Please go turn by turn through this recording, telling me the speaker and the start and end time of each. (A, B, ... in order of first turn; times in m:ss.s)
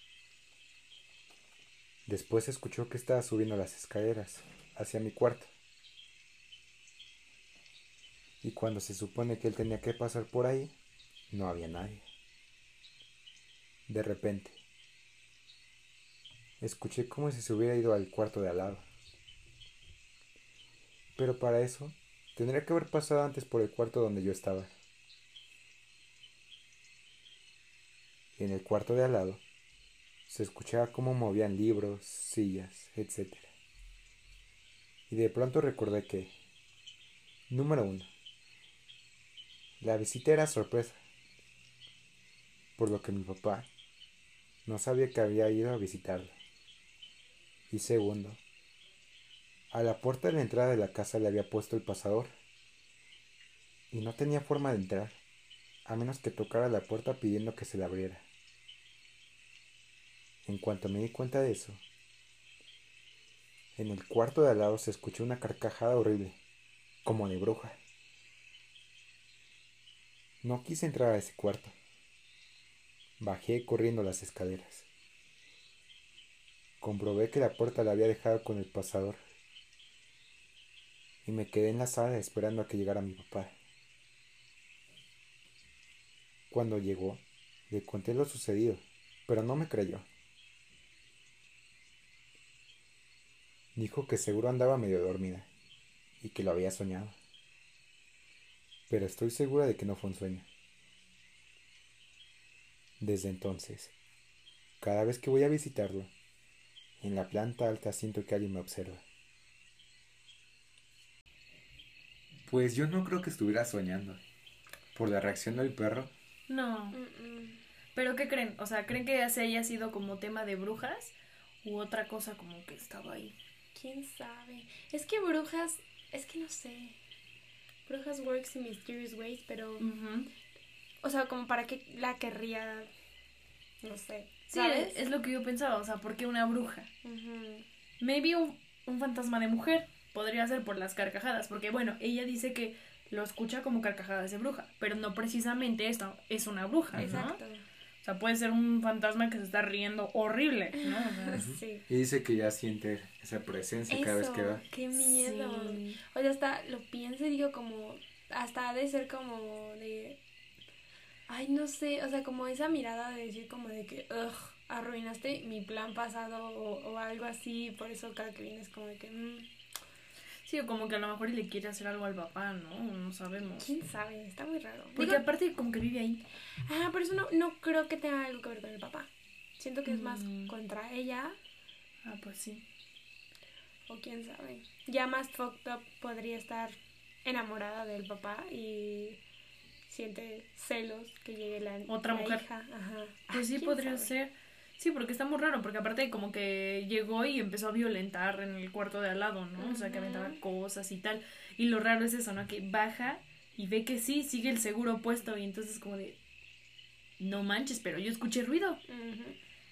0:02.0-0:05.5 A
0:08.4-0:10.7 A
0:11.3-0:12.0 A
0:13.9-0:14.6 A
0:16.6-0:18.8 A
0:21.2-0:24.7 A
0:28.4-0:29.4 A
0:30.3-0:33.5 A
0:35.1-0:36.3 A
0:37.5-0:38.1 A
0:39.8-0:41.0 A
0:42.8-0:43.7 A
0:44.6-0:46.3 A
0:47.7-0:48.4 A
0:49.7-0:52.3 A
0:53.9-0:55.2 A
0:55.8-0:58.2 A
1:00.4-1:01.8 A
1:03.7-1:06.4 A
1:07.0-1:07.8 A
1:10.4-1:11.7 A
1:13.2-1:14.9 A
1:16.8-1:19.2 A
1:21.2-1:23.5 A
1:26.5-1:30.1 A
1:33.7-1:35.5 A
1:36.2-1:37.2 A
1:38.9-1:40.5 A
1:43.0-1:43.9 A
1:44.8-1:46.1 A
1:47.0-1:49.0 A
1:52.4-1:54.2 A
1:54.9-1:56.1 A
1:56.5-1:57.0 B
1:56.9-1:57.6 C
1:57.9-2:03.4 B
2:03.7-2:07.0 C
2:07.8-2:09.9 C
2:09.8-2:10.3 B
2:11.0-2:12.9 C
2:13.8-2:15.1 C
2:14.5-2:16.9 B
2:17.0-2:17.6 C
2:18.0-2:27.4 B
2:26.9-2:27.3 A
2:26.9-2:27.6 C
2:28.0-2:31.4 B
2:30.8-2:31.8 C
2:31.3-2:34.6 A
2:33.9-2:40.2 C
2:35.0-2:35.8 B
2:41.3-2:49.5 C
2:50.4-2:53.7 B
2:53.6-2:55.2 C
2:55.0-2:56.2 B
2:56.6-3:01.4 C
2:59.8-3:00.5 B
3:02.0-3:02.6 B
3:03.9-3:09.2 C
3:09.9-3:14.1 C
3:11.9-3:12.4 B
3:13.3-3:26.2 B
3:19.6-3:20.4 C
3:27.2-3:28.8 B
3:28.9-3:29.4 C